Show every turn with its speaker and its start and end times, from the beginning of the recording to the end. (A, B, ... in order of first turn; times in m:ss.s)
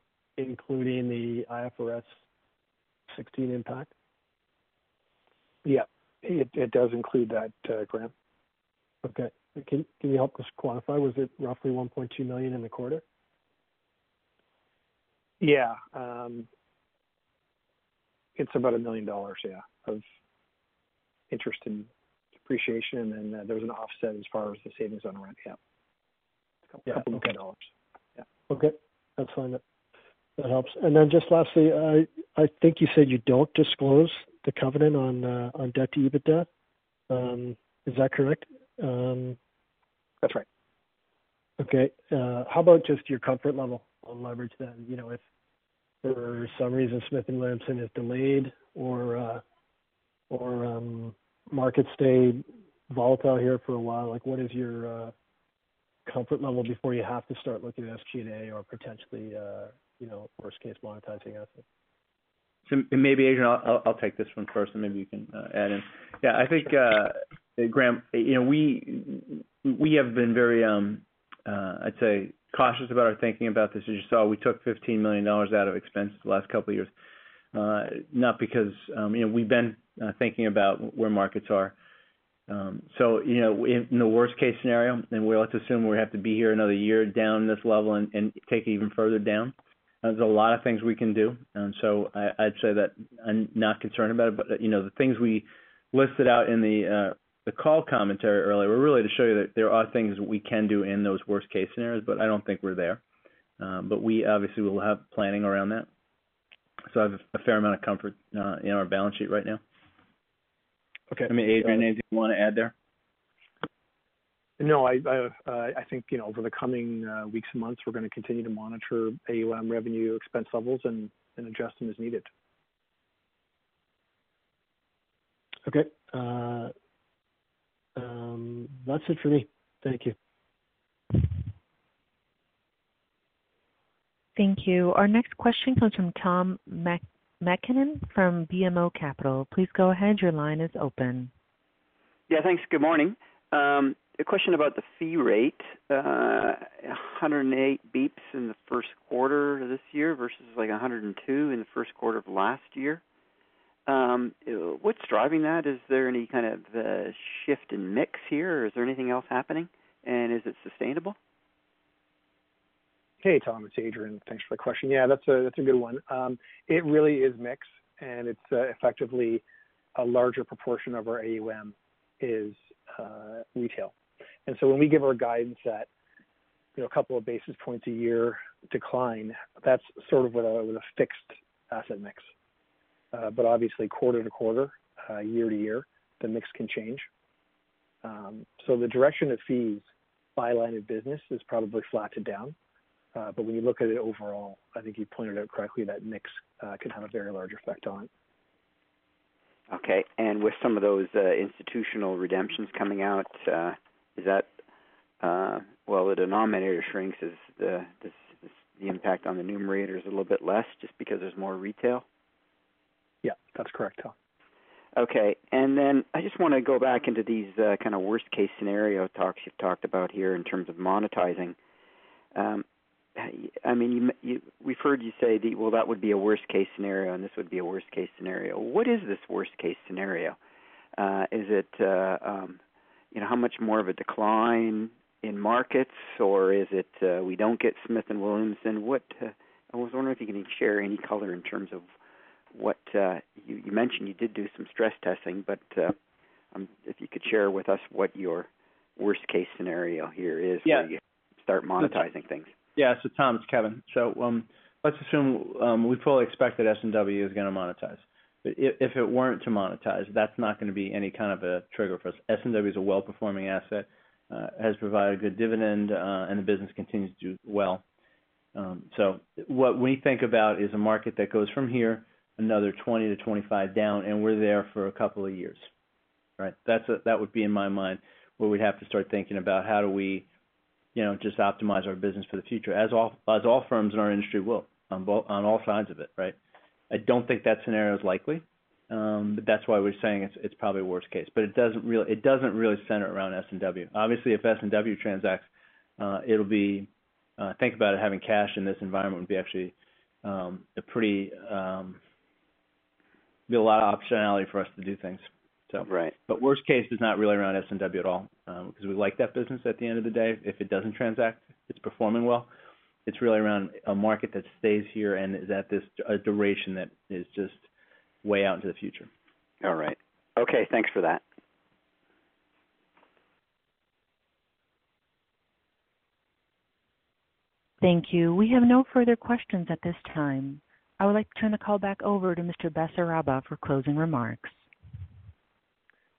0:00.4-0:02.1 A
0:03.1-0:03.9 A
0:05.6-0:08.1 B
0:09.0-0:13.0 A
0:15.4-0:16.5 B
0:18.4-0:20.0 B
0:21.3-0:21.9 B
0:22.4-0:25.6 B
0:26.7-0:27.7 B
0:26.9-0:27.3 A
0:28.5-0:29.6 A
0:30.4-0:36.5 A
0:37.1-0:39.4 A
0:41.6-0:45.2 A
0:46.0-0:49.4 A
0:50.3-0:55.1 A
0:56.1-1:01.6 A
1:02.7-1:16.9 C
1:17.5-1:21.8 C
1:22.5-1:43.0 C
1:43.6-1:45.9 C
1:46.9-1:49.6 C
1:51.1-1:51.8 B
1:51.3-1:52.7 C
1:54.6-2:02.3 B
2:05.7-2:06.7 A
2:08.0-2:10.2 A
2:14.4-2:21.3 D
2:22.3-2:33.0 E
2:33.9-2:41.2 E
2:43.2-2:49.4 B
2:50.0-2:53.9 B
2:54.5-2:55.9 B
2:56.8-3:02.3 B
3:03.1-3:07.1 B
3:08.0-3:09.8 B
3:10.4-3:12.6 B
3:13.2-3:18.1 B
3:19.7-3:24.5 E
3:25.2-3:32.0 E
3:33.2-3:34.1 B
3:35.0-3:41.6 E
3:42.4-3:42.6 E
3:43.2-3:50.4 E
3:51.0-3:52.6 E
3:53.1-4:01.9 E
4:02.5-4:06.0 E
4:06.5-4:12.6 E
4:12.8-4:27.8 C
4:28.6-4:35.7 C
4:36.4-4:40.3 C
4:41.0-4:46.4 C
4:46.9-4:55.5 C
4:56.0-5:02.0 C
5:03.5-5:12.5 C
5:05.8-5:06.2 E
5:13.1-5:17.7 C
5:18.2-5:19.1 C
5:19.6-5:21.2 E
5:27.8-5:34.6 D